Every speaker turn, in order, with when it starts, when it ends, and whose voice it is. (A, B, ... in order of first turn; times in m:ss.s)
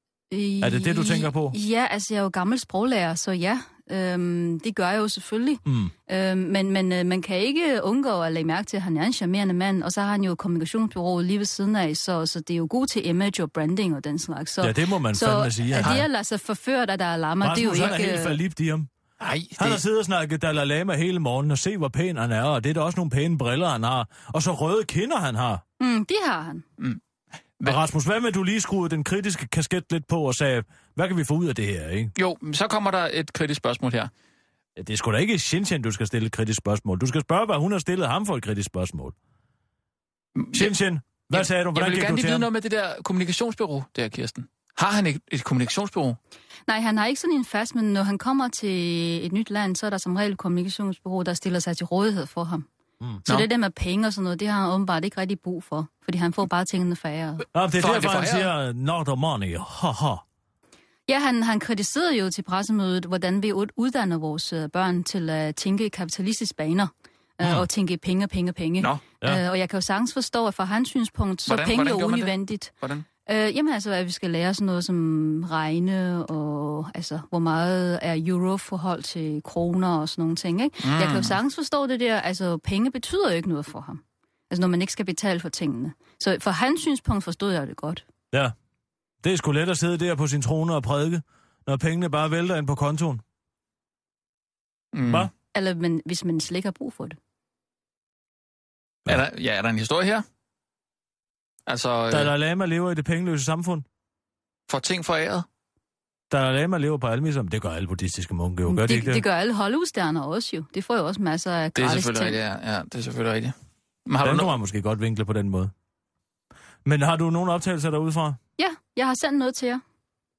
0:00.3-0:18.4 A
0:00.6-0:01.6 B
0:05.6-0:05.9 B
0:14.6-0:16.0 B
0:17.4-0:18.9 B
0:19.2-0:19.8 C
0:19.6-0:25.6 B
0:25.8-0:26.6 A
0:27.6-0:32.1 B
0:32.2-0:34.1 C
0:34.8-0:39.1 B
0:40.4-0:40.7 C
0:40.5-0:42.5 B
0:41.3-0:46.2 C
0:46.7-0:52.7 A
0:53.2-0:57.4 A
0:57.5-1:00.2 B
0:57.8-0:58.5 C
1:01.1-1:12.7 A
1:07.4-1:07.6 B
1:11.5-1:13.0 C
1:13.2-1:28.0 A
1:20.8-1:21.4 C
1:29.2-1:33.2 B
1:34.9-1:35.3 C
1:35.0-1:35.3 B
1:35.5-1:37.2 A
1:39.1-1:40.2 C
1:41.7-1:42.3 C
1:42.1-1:43.8 B
1:44.7-1:45.4 C
1:46.3-1:49.2 B
1:48.6-1:52.4 A
1:51.8-1:53.5 C
1:54.0-1:54.5 C
1:54.2-1:55.7 B
1:56.8-1:58.4 B
1:58.6-1:59.8 A